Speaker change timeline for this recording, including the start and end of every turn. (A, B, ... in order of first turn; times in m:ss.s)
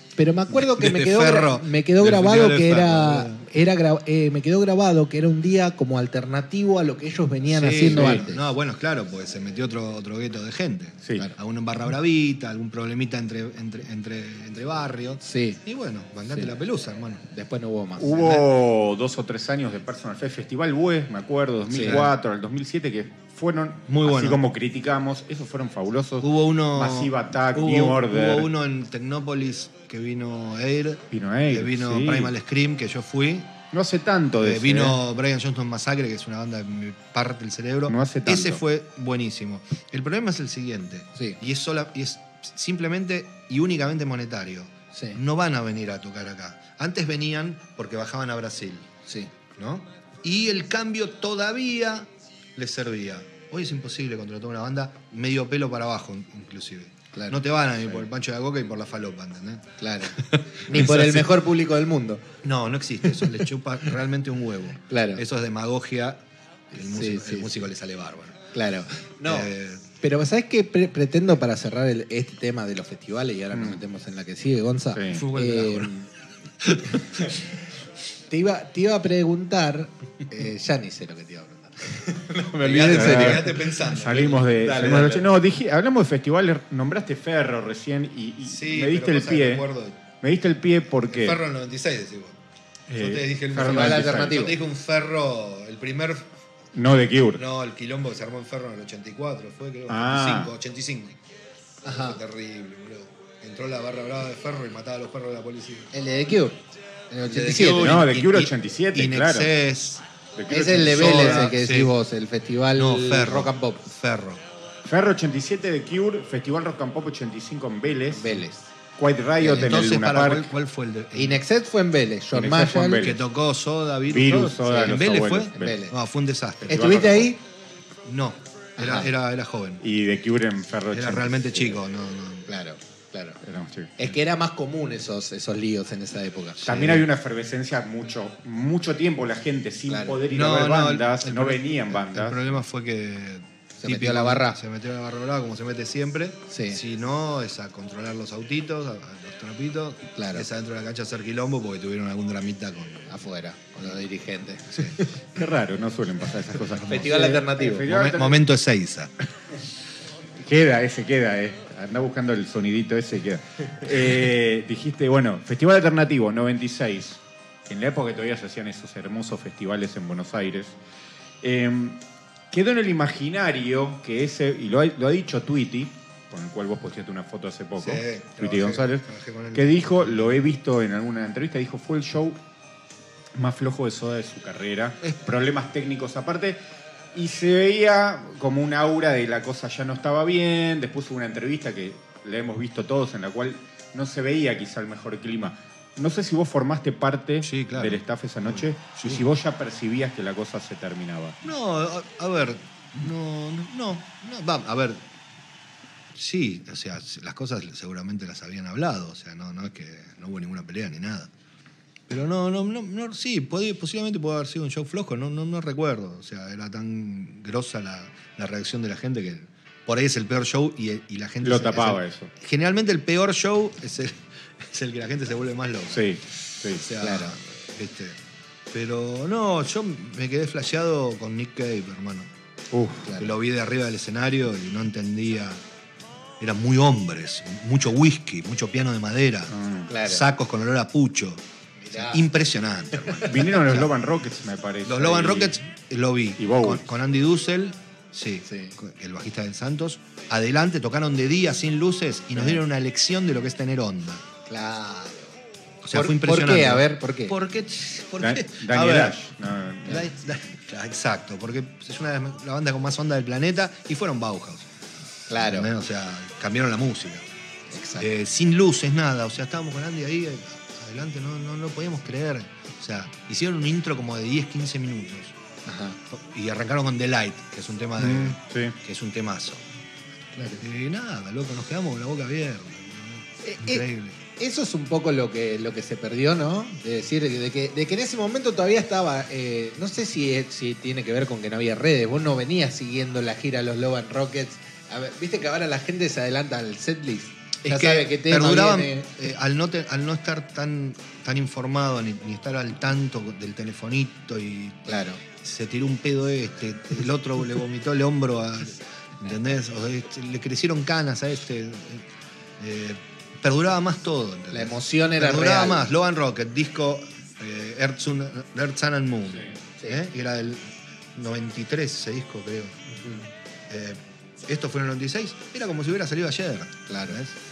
0:00.2-0:08.4 A
0:00.5-0:03.4 B
0:07.5-0:17.2 B
0:07.9-0:08.2 C
0:15.2-0:15.6 A
0:17.3-0:18.4 A
0:18.0-0:28.5 C
0:21.7-0:22.0 A
0:21.8-0:22.1 B
0:23.9-0:24.4 B
0:26.2-0:33.5 B
0:31.1-0:32.3 C
0:33.7-0:35.0 C
0:34.4-0:48.9 B
0:37.9-0:38.6 C
0:49.6-1:01.3 B
0:57.1-0:57.4 A
0:59.8-1:02.2 A
1:02.4-1:08.5 B
1:03.0-1:03.4 A
1:04.9-1:05.2 A
1:06.8-1:07.6 A
1:08.5-1:16.1 A
1:09.2-1:09.9 B
1:13.5-1:13.8 C
1:14.9-1:15.2 C
1:15.1-1:15.9 B
1:16.6-1:17.2 B
1:16.8-1:17.4 A
1:18.3-1:23.8 A
1:22.6-1:25.3 B
1:22.9-1:29.6 C
1:24.7-1:25.2 A
1:28.4-1:30.0 B
1:30.2-1:31.4 C
1:31.1-1:32.4 B
1:32.9-1:34.4 C
1:32.9-1:36.3 B
1:33.6-1:34.6 A
1:36.7-1:37.4 C
1:37.4-1:41.2 B
1:39.9-1:40.5 C
1:41.8-1:42.2 A
1:41.8-1:45.9 B
1:45.9-1:46.6 A
1:47.1-1:48.0 A
1:47.2-1:50.0 B
1:47.8-1:49.5 C
1:50.4-1:51.5 C
1:50.5-1:53.9 A
1:50.5-1:51.9 B
1:52.7-1:54.4 B
1:54.8-1:58.4 C
1:58.1-1:58.7 A
1:59.0-2:00.5 C
1:59.4-2:01.4 B
2:01.1-2:03.1 A
2:02.3-2:03.2 C
2:03.0-2:07.3 B
2:04.1-2:05.8 C
2:04.7-2:05.0 A
2:05.5-2:05.9 A
2:06.6-2:07.4 A
2:08.0-2:09.8 B
2:08.8-2:09.1 A
2:09.8-2:11.8 C
2:10.9-2:12.5 B
2:12.5-2:13.4 A
2:13.4-2:14.1 C
2:14.0-2:16.9 A
2:16.6-2:17.0 B
2:16.6-2:22.4 C
2:19.9-2:20.2 A
2:20.3-2:33.1 B
2:23.8-2:24.6 A
2:26.5-2:26.8 A
2:30.2-2:30.5 A
2:33.1-2:35.1 A
2:35.3-2:38.4 C
2:36.7-2:39.1 B
2:36.8-2:37.9 A
2:40.4-2:50.7 C
2:51.4-3:02.4 C
2:57.8-3:00.4 B
3:03.3-3:06.6 C
3:07.1-3:21.4 C
3:17.4-3:19.2 B
3:21.4-3:25.0 B
3:26.1-3:31.3 B
3:32.1-3:46.1 B
3:41.4-3:42.3 C
3:45.9-3:46.8 C
3:46.7-3:48.2 B
3:47.0-3:47.4 A
3:48.7-3:52.3 B
3:52.7-3:53.1 C
3:53.0-3:53.3 A
3:53.1-3:55.6 B
3:56.4-4:03.9 B
3:59.5-3:59.9 C
3:59.9-4:00.2 A
4:01.8-4:02.2 A
4:02.9-4:03.4 A
4:03.2-4:05.6 C
4:04.8-4:14.2 B
4:06.4-4:06.8 C
4:08.5-4:08.7 A
4:14.5-4:15.3 A
4:15.8-4:19.2 B
4:15.9-4:17.4 A
4:18.2-4:20.0 C
4:19.8-4:24.7 B
4:25.3-4:25.7 A
4:25.3-4:27.2 B
4:27.7-4:28.1 A
4:28.0-4:35.4 B
4:35.6-4:36.0 A
4:36.1-4:39.6 B
4:38.0-4:38.8 C
4:40.4-4:40.6 A
4:40.5-4:44.2 B
4:43.4-4:43.8 A
4:44.4-4:59.1 A
4:57.6-5:12.0 B
5:04.9-5:05.2 A
5:12.6-5:20.6 B
5:14.5-5:15.9 A
5:21.1-5:22.8 B
5:22.9-5:23.3 A
5:23.7-5:27.4 B
5:26.9-5:27.2 A